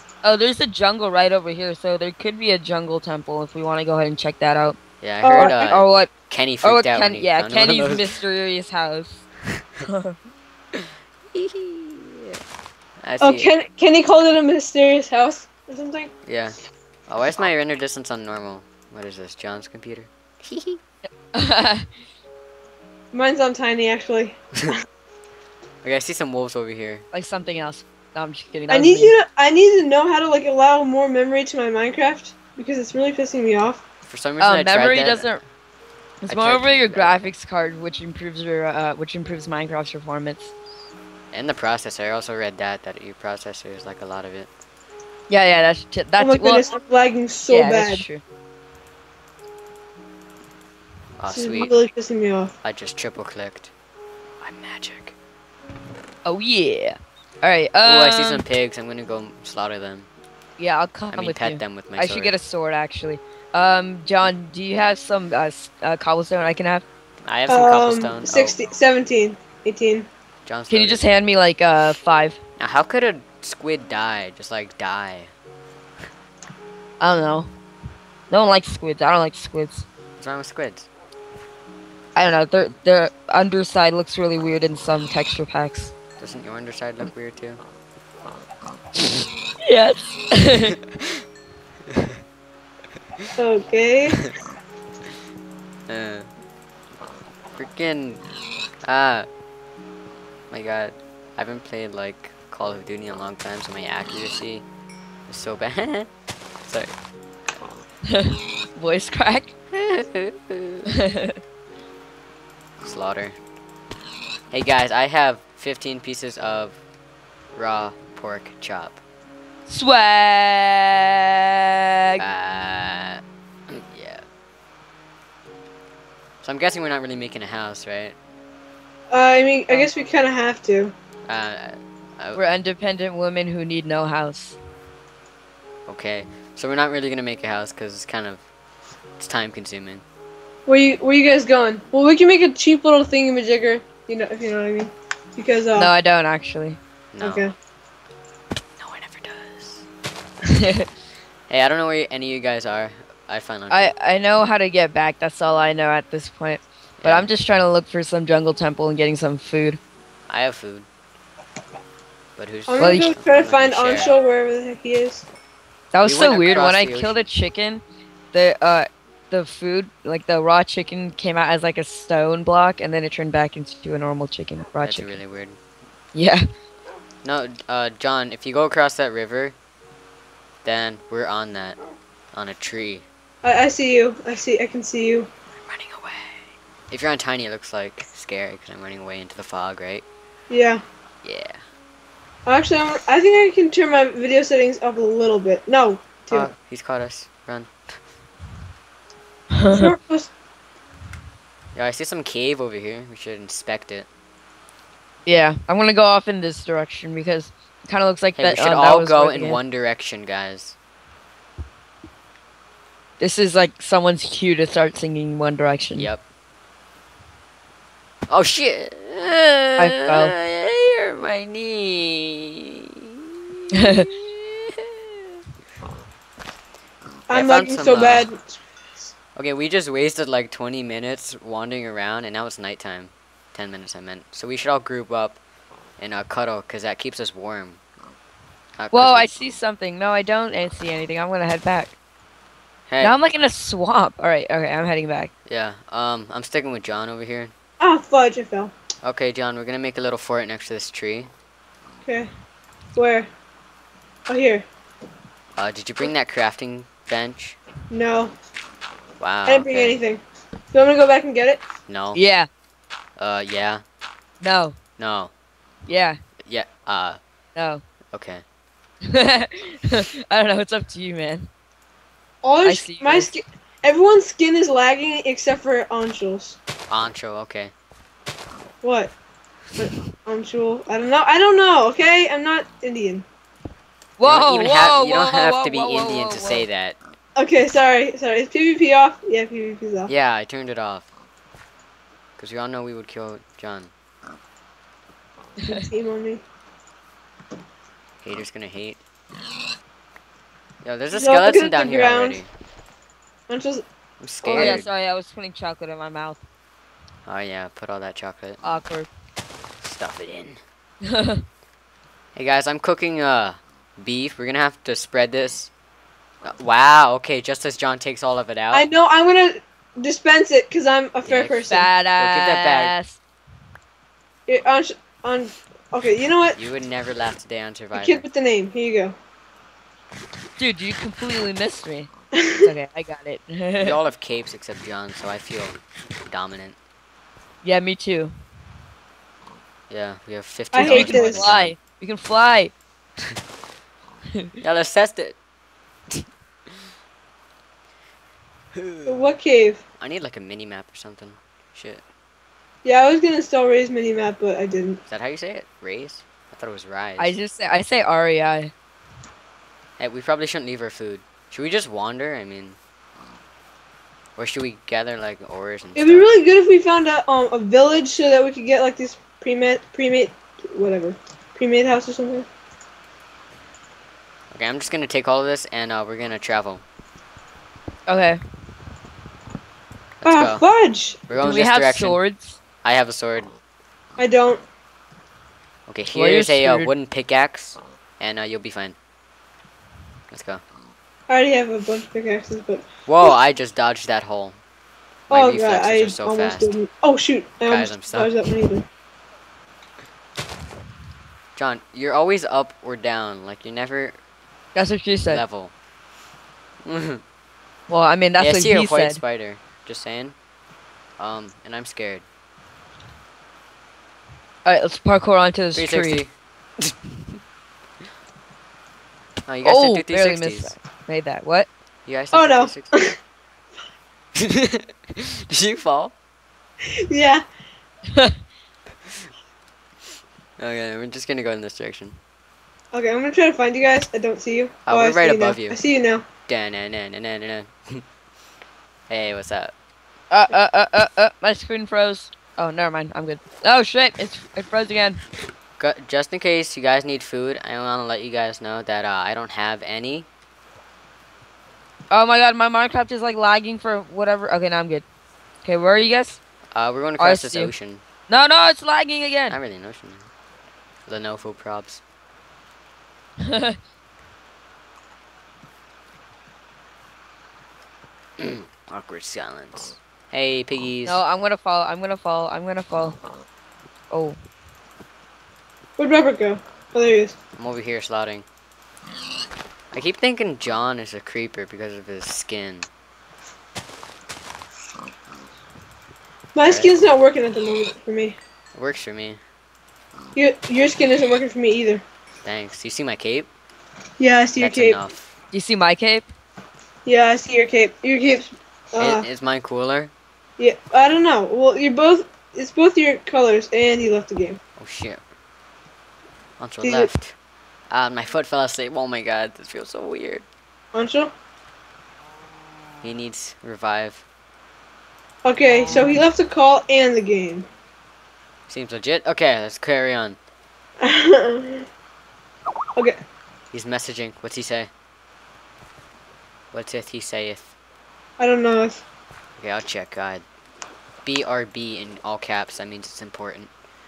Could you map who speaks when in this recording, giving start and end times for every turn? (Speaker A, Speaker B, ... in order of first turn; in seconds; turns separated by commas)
Speaker A: 0.2-4.8, Speaker B: 5.0-8.1, Speaker C: 5.2-5.7, Speaker A: 5.3-6.1, Speaker A: 6.6-9.2, Speaker A: 9.8-10.2, Speaker B: 10.7-12.4, Speaker B: 13.0-13.5, Speaker C: 13.2-16.1, Speaker B: 16.2-20.8, Speaker A: 21.3-21.9, Speaker C: 23.1-24.8, Speaker B: 25.8-27.0, Speaker A: 27.1-29.1, Speaker C: 28.7-33.8, Speaker B: 34.0-35.3, Speaker A: 34.4-35.4, Speaker A: 36.2-40.5, Speaker B: 36.3-37.3, Speaker B: 41.3-44.5, Speaker A: 45.3-46.7, Speaker C: 46.2-48.0, Speaker A: 47.5-48.2, Speaker B: 51.2-51.7, Speaker C: 51.3-52.5, Speaker B: 52.6-53.7, Speaker B: 54.4-55.1, Speaker A: 56.2-58.4, Speaker B: 57.8-60.1, Speaker A: 60.6-66.8, Speaker B: 61.1-62.3, Speaker B: 67.2-68.5, Speaker C: 67.5-70.1, Speaker B: 70.5-71.1, Speaker A: 70.7-72.4, Speaker B: 72.6-75.3, Speaker A: 77.0-77.5, Speaker A: 78.3-79.8, Speaker B: 80.2-80.9, Speaker A: 82.1-85.9, Speaker B: 86.2-87.6, Speaker A: 89.6-90.8, Speaker B: 90.7-91.2, Speaker B: 91.9-92.2, Speaker C: 93.3-94.2, Speaker B: 95.9-96.3, Speaker B: 97.5-98.2, Speaker B: 98.8-99.3, Speaker B: 100.5-104.6, Speaker B: 105.3-106.1, Speaker B: 106.6-106.9, Speaker A: 108.1-109.5, Speaker B: 109.7-110.8, Speaker A: 110.9-111.4, Speaker B: 112.8-113.3, Speaker B: 114.5-116.8, Speaker B: 117.5-119.0, Speaker A: 119.7-122.2, Speaker B: 122.2-124.2, Speaker B: 126.4-128.2, Speaker C: 129.1-130.9, Speaker B: 131.3-132.4, Speaker A: 132.3-134.6, Speaker B: 135.9-138.4, Speaker B: 139.2-140.0, Speaker C: 140.7-145.9, Speaker A: 145.8-146.8, Speaker B: 147.1-147.5, Speaker C: 147.2-147.5, Speaker B: 148.8-149.8, Speaker A: 150.4-150.8, Speaker B: 151.5-153.9, Speaker A: 153.7-159.8, Speaker B: 157.0-157.3, Speaker B: 160.3-160.9, Speaker B: 162.3-164.1, Speaker C: 162.7-165.2, Speaker A: 162.8-163.1, Speaker A: 165.9-175.1, Speaker B: 166.0-167.2, Speaker B: 174.8-175.6, Speaker A: 176.1-176.4, Speaker B: 177.2-179.6, Speaker B: 180.6-181.8, Speaker B: 182.3-183.1, Speaker C: 183.4-185.3, Speaker B: 185.6-190.0, Speaker C: 190.5-190.8, Speaker B: 191.2-191.6, Speaker C: 192.4-196.5, Speaker B: 196.3-198.0, Speaker A: 199.5-199.9, Speaker C: 199.7-200.3, Speaker B: 201.7-204.1, Speaker A: 205.2-209.6, Speaker B: 208.4-210.8, Speaker A: 213.2-216.1, Speaker B: 216.0-216.2, Speaker B: 218.3-225.3, Speaker A: 219.8-220.3, Speaker A: 223.7-224.1, Speaker C: 227.3-229.1, Speaker B: 227.3-228.3, Speaker B: 229.3-235.4, Speaker B: 236.0-237.8, Speaker B: 238.8-239.5, Speaker A: 238.9-241.9, Speaker B: 242.9-243.1, Speaker A: 243.0-245.3, Speaker B: 245.5-247.5, Speaker C: 247.8-248.7, Speaker B: 249.0-251.3, Speaker C: 252.0-252.3, Speaker C: 252.9-253.3, Speaker C: 254.3-254.6, Speaker B: 255.5-257.6, Speaker C: 257.9-258.3, Speaker B: 259.2-260.0, Speaker C: 259.4-261.6, Speaker B: 261.9-262.2, Speaker A: 262.1-262.5, Speaker B: 263.2-263.8, Speaker A: 264.4-264.8, Speaker B: 265.0-265.3, Speaker A: 265.9-266.2, Speaker B: 266.4-267.2, Speaker A: 267.5-267.8, Speaker B: 268.1-268.4, Speaker A: 269.0-271.5, Speaker C: 272.4-276.6, Speaker A: 272.6-273.3, Speaker B: 276.9-277.7, Speaker C: 278.8-279.1, Speaker C: 279.8-283.2, Speaker A: 284.2-286.6, Speaker B: 284.2-287.0, Speaker C: 287.4-290.1, Speaker B: 290.1-291.1, Speaker B: 292.4-293.9, Speaker C: 295.6-296.4, Speaker B: 298.2-299.0, Speaker B: 300.8-302.5, Speaker C: 301.1-302.4, Speaker C: 303.5-303.8, Speaker B: 304.2-304.9, Speaker C: 304.4-304.8, Speaker A: 304.5-306.4, Speaker B: 307.2-308.6, Speaker A: 308.6-309.1, Speaker B: 309.8-310.6, Speaker A: 311.1-311.4, Speaker B: 312.3-315.7, Speaker B: 316.4-318.9, Speaker C: 318.7-321.9, Speaker B: 321.2-322.9, Speaker A: 321.7-323.2, Speaker C: 324.5-326.6, Speaker B: 326.5-328.2, Speaker C: 327.9-329.1, Speaker A: 330.6-332.1, Speaker C: 332.3-332.7, Speaker A: 332.6-334.0, Speaker B: 333.8-336.8, Speaker A: 337.6-338.3, Speaker B: 339.9-341.7, Speaker C: 340.7-341.6, Speaker A: 340.8-342.7, Speaker B: 344.6-345.4, Speaker B: 346.1-346.7, Speaker B: 348.7-349.2, Speaker C: 349.1-349.8, Speaker B: 350.0-352.0, Speaker C: 352.8-355.0, Speaker B: 355.1-357.3, Speaker A: 357.2-358.7, Speaker B: 360.0-362.8, Speaker B: 364.4-366.3, Speaker C: 365.9-372.5, Speaker B: 374.5-376.8, Speaker A: 378.1-378.4, Speaker B: 380.2-380.6, Speaker C: 380.2-381.4, Speaker B: 381.3-382.2, Speaker A: 381.4-382.6, Speaker B: 382.8-383.5, Speaker C: 384.2-384.6, Speaker B: 385.9-388.9, Speaker A: 386.1-386.9, Speaker B: 390.3-390.6, Speaker C: 391.3-392.8, Speaker B: 393.1-394.6, Speaker C: 395.3-398.9, Speaker B: 395.3-396.7, Speaker B: 397.7-398.3, Speaker B: 401.6-404.2, Speaker A: 404.7-405.4, Speaker B: 405.3-405.7, Speaker B: 406.8-407.2, Speaker A: 407.9-409.2, Speaker B: 408.4-410.4, Speaker B: 411.2-412.2, Speaker A: 414.6-416.2, Speaker B: 415.7-417.4, Speaker B: 419.4-420.7, Speaker A: 419.6-421.7, Speaker B: 422.1-422.9, Speaker C: 422.3-423.1, Speaker B: 424.4-426.1, Speaker C: 426.9-427.4, Speaker A: 428.1-428.4, Speaker B: 430.6-432.2, Speaker C: 432.9-436.2, Speaker B: 434.9-435.8, Speaker B: 436.5-438.0, Speaker B: 439.1-439.7, Speaker A: 440.3-445.2, Speaker B: 445.8-450.3, Speaker A: 452.1-455.0, Speaker A: 455.6-456.4, Speaker B: 456.7-458.0, Speaker A: 457.2-457.7, Speaker A: 458.3-459.6, Speaker B: 459.5-460.3, Speaker B: 461.1-462.0, Speaker A: 463.4-463.8, Speaker B: 468.4-471.2, Speaker A: 471.0-473.2, Speaker A: 474.1-474.4, Speaker C: 476.0-477.4, Speaker B: 477.6-478.4, Speaker B: 479.9-482.9, Speaker C: 486.5-488.4, Speaker B: 486.6-486.9, Speaker B: 488.7-489.4, Speaker C: 490.4-492.0, Speaker B: 492.4-493.5, Speaker C: 494.2-495.0, Speaker B: 494.6-495.3, Speaker A: 495.5-496.3, Speaker C: 497.1-499.2, Speaker B: 499.0-500.1, Speaker C: 500.6-504.6, Speaker B: 504.8-505.2, Speaker B: 506.6-507.3, Speaker C: 506.8-507.1, Speaker B: 507.9-510.4, Speaker C: 510.9-511.3, Speaker B: 513.0-514.2, Speaker C: 515.4-517.7, Speaker B: 518.7-520.4, Speaker C: 521.0-521.9, Speaker B: 523.7-524.9, Speaker B: 526.7-527.7, Speaker C: 528.4-529.0, Speaker B: 529.6-530.4, Speaker B: 531.2-533.7